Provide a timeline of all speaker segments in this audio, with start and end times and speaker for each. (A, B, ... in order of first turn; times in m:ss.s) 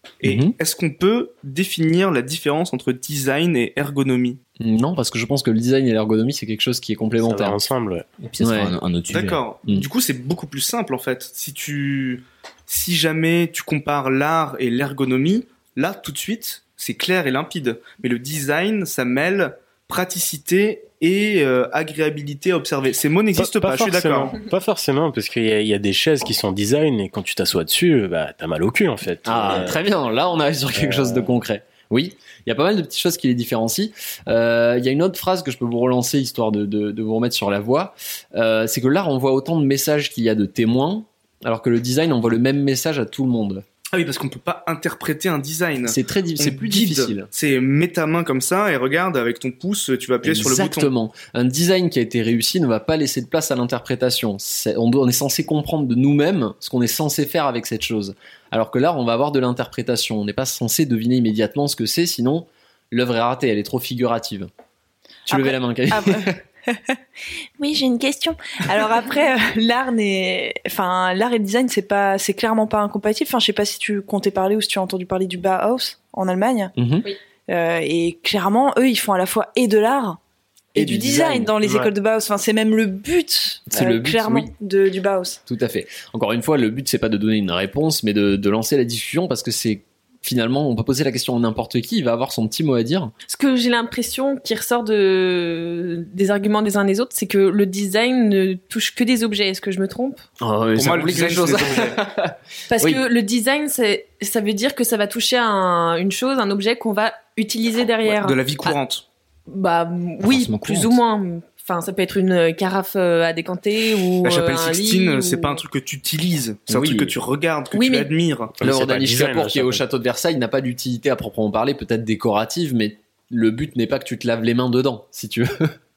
0:00.2-0:04.4 A
0:00.2-0:00.5 B
0:04.6-0:07.6 B
0:07.2-0:08.0 C
0:08.2-0:09.4 D
0:08.4-0:08.7 B
0:09.1-0:24.4 A
0:23.4-0:29.8 C
0:29.2-0:43.6 B
0:30.8-0:31.3 C
0:43.9-0:50.9 A
0:45.8-0:47.3 B
0:50.2-1:04.5 B
1:05.3-1:06.4 B
1:05.3-1:07.0 E
1:07.6-1:16.7 E
1:16.8-1:17.0 B
1:17.5-1:20.2 E
1:20.7-1:25.4 E
1:20.8-1:21.5 B
1:21.6-1:21.9 C
1:23.7-1:24.5 B
1:25.5-1:33.1 B
1:33.3-1:40.2 F
1:40.4-1:43.0 B
1:40.8-1:42.0 A
1:42.7-1:48.8 F
1:48.0-1:49.0 A
1:49.5-1:55.6 F
1:50.2-1:51.0 D
1:54.2-1:58.6 A
1:56.7-1:57.1 B
1:57.7-1:58.1 F
1:58.6-1:59.8 C
1:58.6-2:05.7 B